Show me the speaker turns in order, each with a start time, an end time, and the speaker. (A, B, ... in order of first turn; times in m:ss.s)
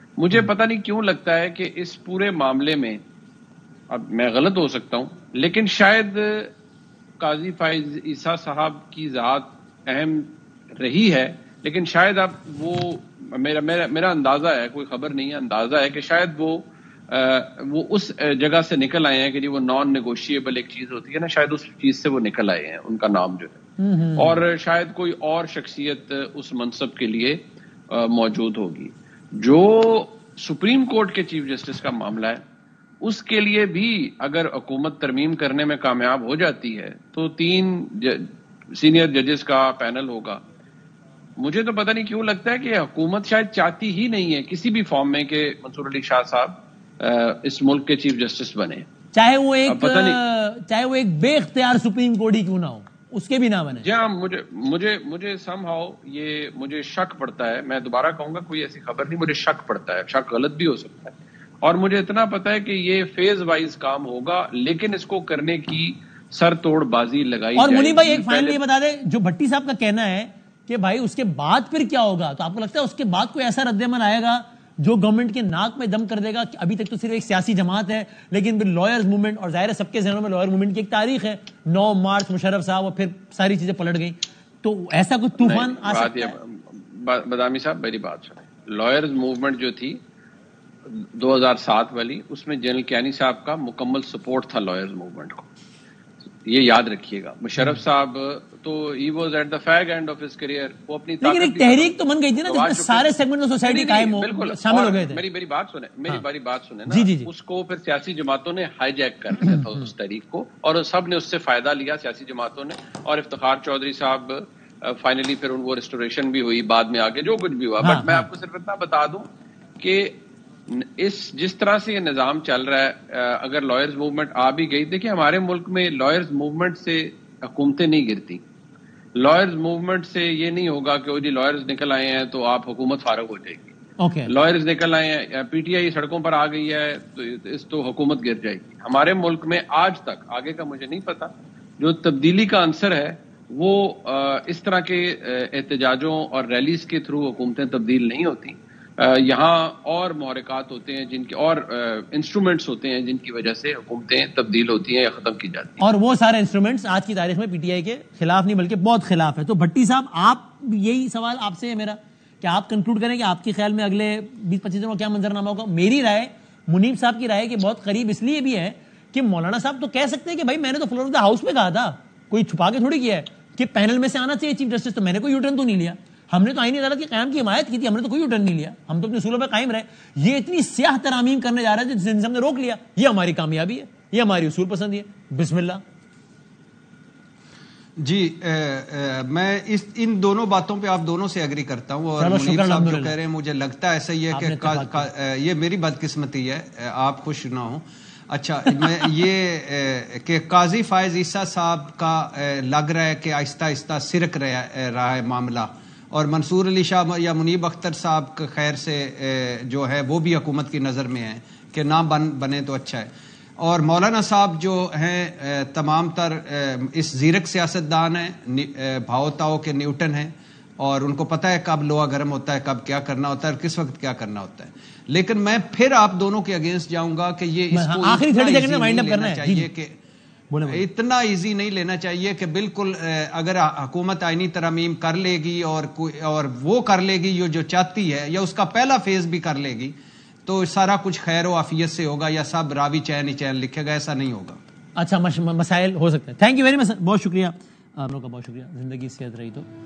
0:00.2-0:03.0 A
0:03.9-0:06.5 A
0:07.2-0:23.6 A
0:23.8-0:24.4 B
0:24.2-0:32.4 A
0:33.0-0:40.4 A
0:41.4-0:48.9 A
0:49.1-0:53.8 B
0:49.7-0:50.2 A
0:53.8-1:08.6 A
1:07.6-1:26.4 B
1:25.4-1:30.0 A
1:30.9-1:35.4 A
1:36.4-1:59.3 A
1:41.2-1:45.2 B
1:46.9-1:47.3 B
1:49.4-1:49.9 B
1:57.8-1:58.3 B
1:59.8-2:00.2 A
2:00.7-2:08.4 A
2:09.2-2:13.7 A
2:14.0-2:14.3 B
2:14.3-2:35.8 A
2:35.8-3:05.8 B
3:08.0-3:50.0 C
3:12.2-3:13.1 B
3:14.3-3:15.1 B
3:47.7-3:49.7 B
3:50.5-3:50.8 B
3:50.6-4:04.6 C
4:05.0-4:09.7 B